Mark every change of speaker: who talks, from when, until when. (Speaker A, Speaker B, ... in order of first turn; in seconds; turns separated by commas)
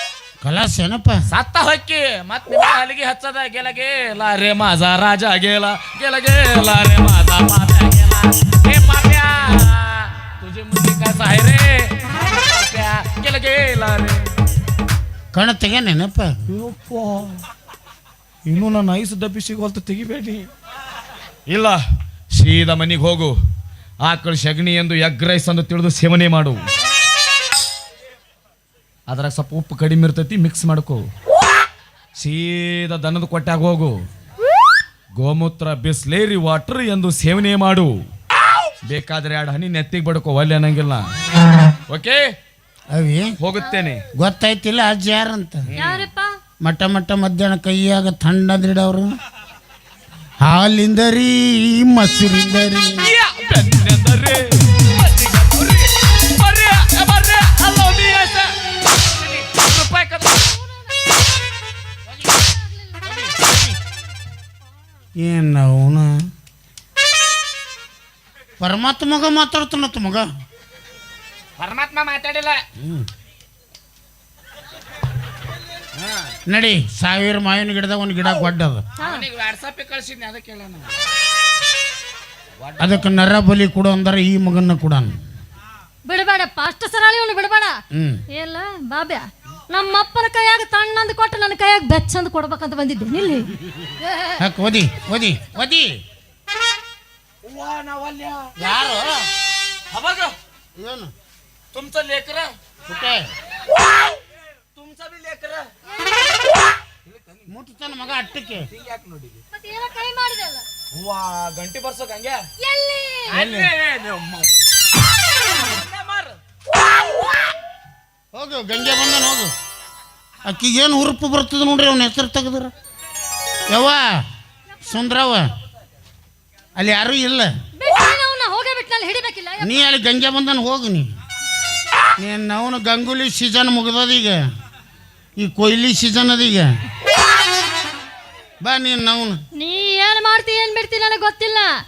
Speaker A: 0.4-1.2, Speaker B: 1.3-14.3, Speaker A: 15.3-16.3, Speaker B: 16.5-17.4, Speaker B: 18.4-20.5, Speaker B: 21.5-21.8, Speaker B: 22.3-23.3, Speaker B: 24.0-26.6, Speaker B: 29.1-31.0, Speaker B: 32.2-34.0, Speaker B: 35.1-37.9, Speaker B: 38.8-41.1, Speaker B: 41.9-42.2, Speaker A: 42.9-43.3, Speaker B: 43.4-44.0, Speaker A: 44.1-45.6, Speaker B: 45.7-46.1, Speaker C: 45.8-46.3, Speaker A: 46.6-49.1, Speaker A: 50.4-53.1, Speaker B: 53.0-60.6, Speaker C: 60.6-61.2, Speaker C: 62.3-63.0, Speaker B: 63.2-63.5, Speaker A: 65.2-66.1, Speaker A: 68.6-70.2, Speaker B: 71.6-72.6, Speaker A: 72.8-73.1, Speaker B: 76.0-76.3, Speaker A: 76.5-78.8, Speaker C: 79.0-79.2, Speaker B: 79.0-81.0, Speaker B: 82.6-83.1, Speaker A: 82.8-85.1, Speaker C: 86.0-87.7, Speaker A: 87.9-88.2, Speaker C: 88.3-94.4, Speaker A: 94.4-95.9, Speaker B: 97.4-98.6, Speaker A: 98.6-99.3, Speaker B: 99.9-100.3, Speaker A: 100.8-101.1, Speaker B: 101.7-102.5, Speaker A: 102.8-103.3, Speaker B: 104.7-105.7, Speaker B: 107.0-107.5, Speaker A: 107.5-108.6, Speaker B: 108.7-109.4, Speaker C: 109.5-110.6, Speaker B: 110.9-112.5, Speaker C: 112.6-113.4, Speaker B: 113.3-114.5, Speaker A: 113.3-113.7, Speaker B: 115.4-116.4, Speaker A: 118.3-119.5, Speaker A: 120.4-122.7, Speaker A: 123.7-124.2, Speaker A: 124.8-125.5, Speaker A: 126.8-127.5, Speaker C: 127.8-129.8, Speaker A: 129.6-131.1, Speaker A: 132.2-134.4, Speaker A: 135.4-136.7, Speaker A: 138.6-139.4, Speaker C: 139.6-141.7